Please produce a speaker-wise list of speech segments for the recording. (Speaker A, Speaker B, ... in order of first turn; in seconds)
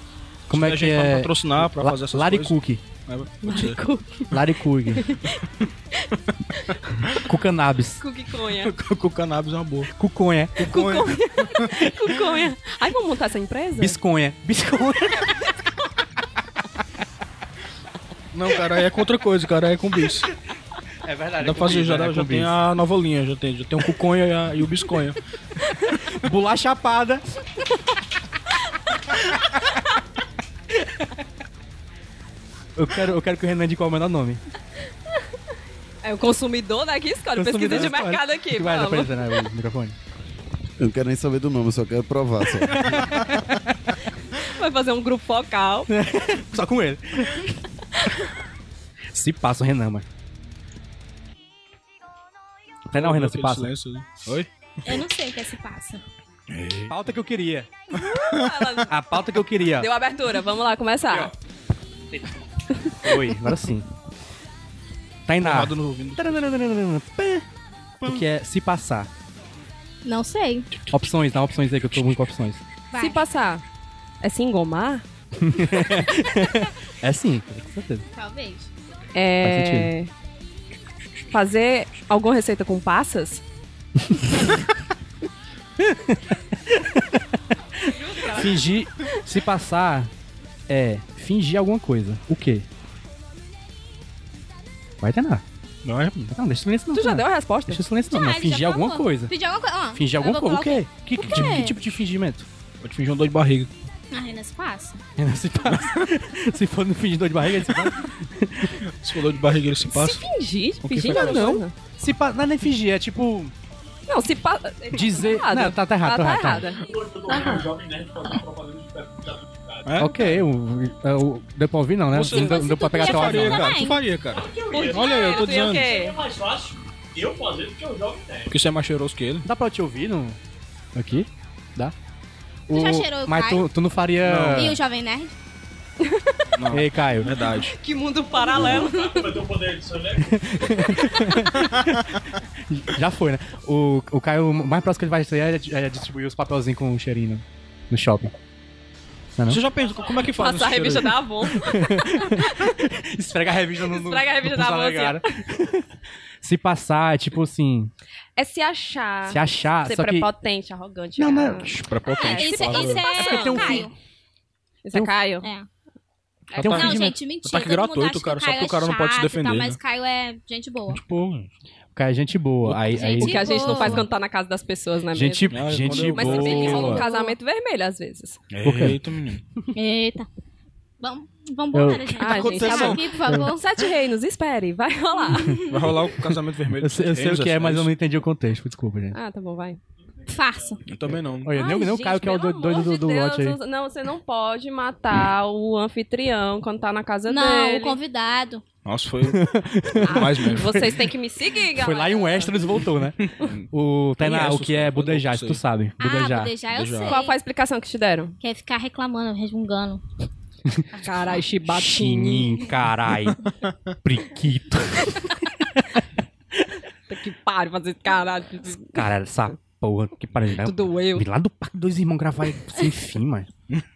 Speaker A: 0.5-2.8, 4.3-5.1, 7.2-8.0, 10.0-10.6, 13.8-15.3, 21.0-22.5, 25.8-27.2, 30.7-31.1, 32.7-34.4, 37.3-40.0, 42.7-43.6, 45.9-47.5, 49.1-50.0, 52.9-53.7, 56.9-57.7, 58.9-59.9, 63.0-63.9, 65.3-67.5, 68.0-69.1, 70.9-72.6, 75.4-78.0, 79.4-79.9, 85.8-87.2, 87.8-90.1, 90.7-92.7, 95.0-95.4, 96.3-99.3, 99.9-102.5, 105.2-108.8, 111.0-113.5, 114.9-116.7, 120.0-123.7, 129.4-130.4, 130.9-131.9, 132.7-134.8, 136.7-137.3, 140.3-142.1, 142.7-148.3, 149.3-149.6, 151.5-155.9, 156.4-157.9, 159.3-160.3, 161.2-161.9, 163.1-163.9, 166.6-167.2, 171.9-174.0, 175.1-177.1, 178.6-179.0, 181.7-182.7, 186.8-189.2, 191.4-193.6, 199.3-200.9, 201.7-206.6, 211.7-213.4, 214.0-216.0, 218.8-223.5
Speaker B: 0.5-3.8, 8.6-9.9, 10.6-11.9, 18.3-20.3, 21.4-25.2, 52.9-54.5, 56.5-56.9, 65.4-66.4, 95.8-96.3, 102.8-103.7, 108.8-110.2, 110.8-111.5, 119.8-120.4, 122.1-126.0, 128.5-129.4, 134.2-134.8, 136.6-137.8, 149.4-151.2, 161.7-163.0, 166.5-169.8, 170.9-171.5, 172.6-173.0, 175.5-177.0, 178.5-179.4, 182.3-183.0, 185.7-187.9, 190.8-191.6, 198.8-199.5, 200.0-200.7, 203.2-203.6, 204.2-205.6, 206.7-207.2
Speaker C: 3.4-7.2, 8.0-8.7, 10.7-14.0, 36.0-39.2, 44.3-45.9, 57.9-58.9, 59.8-61.3, 72.9-73.6, 74.2-75.0, 79.1-80.1, 81.3-83.4, 87.9-88.7, 96.9-97.8, 109.8-111.7, 114.1-117.7, 124.7-126.2, 136.0-136.4, 137.4-139.5, 150.3-152.7, 153.9-155.2, 158.4-163.9, 164.8-165.5, 173.0-178.4, 182.2-185.8, 189.1-189.8, 191.5-198.0, 200.0-202.6, 207.0-208.3, 210.9-212.6, 217.1-219.0, 220.6-221.3
Speaker D: 40.8-43.5
Speaker E: 54.8-56.0, 70.0-70.7, 72.9-73.2, 78.2-78.7, 98.1-101.8, 104.1-105.0, 122.2-124.0, 132.7-133.7, 134.5-135.3, 162.1-163.9, 166.6-171.0, 172.9-174.1, 176.9-177.3, 179.7-180.3, 181.0-183.6, 190.3-190.8, 191.6-191.9, 197.3-198.6, 206.0-207.4, 208.4-210.0
Speaker F: 116.9-119.8, 124.4-125.4, 126.1-128.5, 139.3-140.7